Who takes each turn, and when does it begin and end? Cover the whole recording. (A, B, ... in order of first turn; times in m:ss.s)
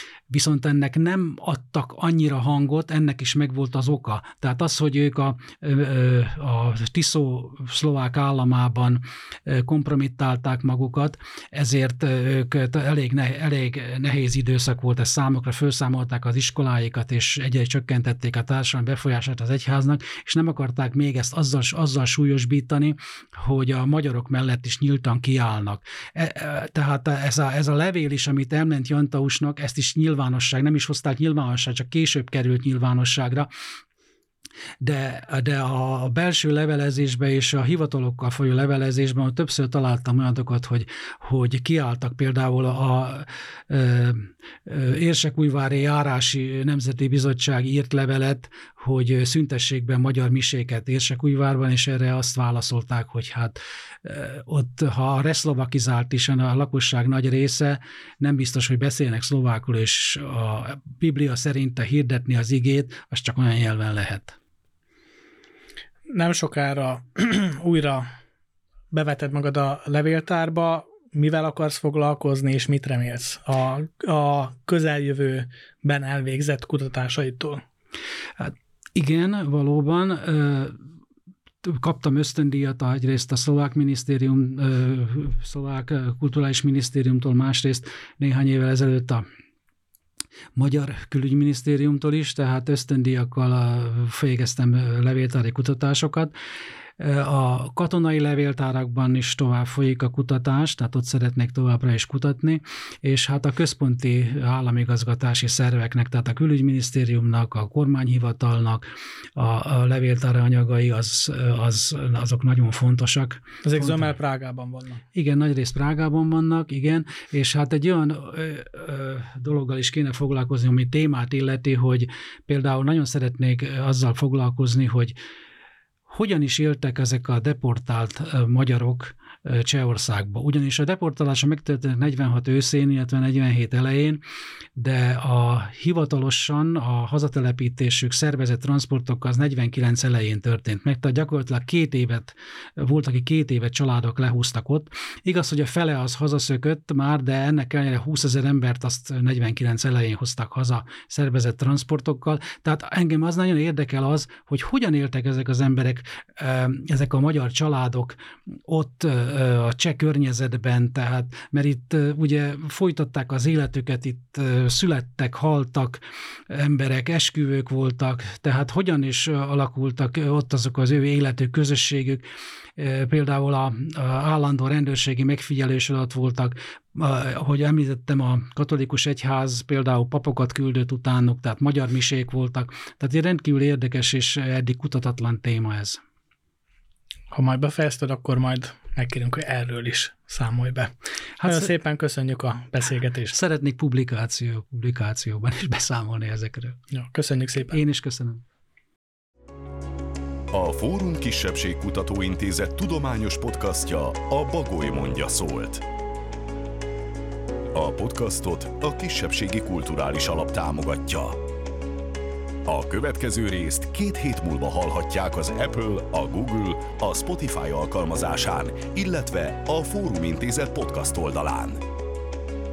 0:00.3-0:33.5 A
0:34.8-1:04.4 A
1:06.1-1:08.1 B
1:08.9-1:17.6 B
1:18.4-1:20.8 A
1:21.6-1:29.2 A
1:30.6-1:36.3 A
1:37.0-1:48.8 A
1:49.4-1:54.2 A
1:53.6-1:55.0 B
1:55.1-2:05.2 A
2:06.1-2:14.2 A
2:14.8-2:52.2 A
2:52.8-3:06.0 A
3:07.3-3:13.4 B
3:11.4-3:11.7 A
3:13.3-3:16.8 A
3:16.9-3:17.8 B
3:17.7-3:18.4 A
3:20.5-3:25.8 C
3:27.7-3:31.4 C
3:32.7-3:41.8 C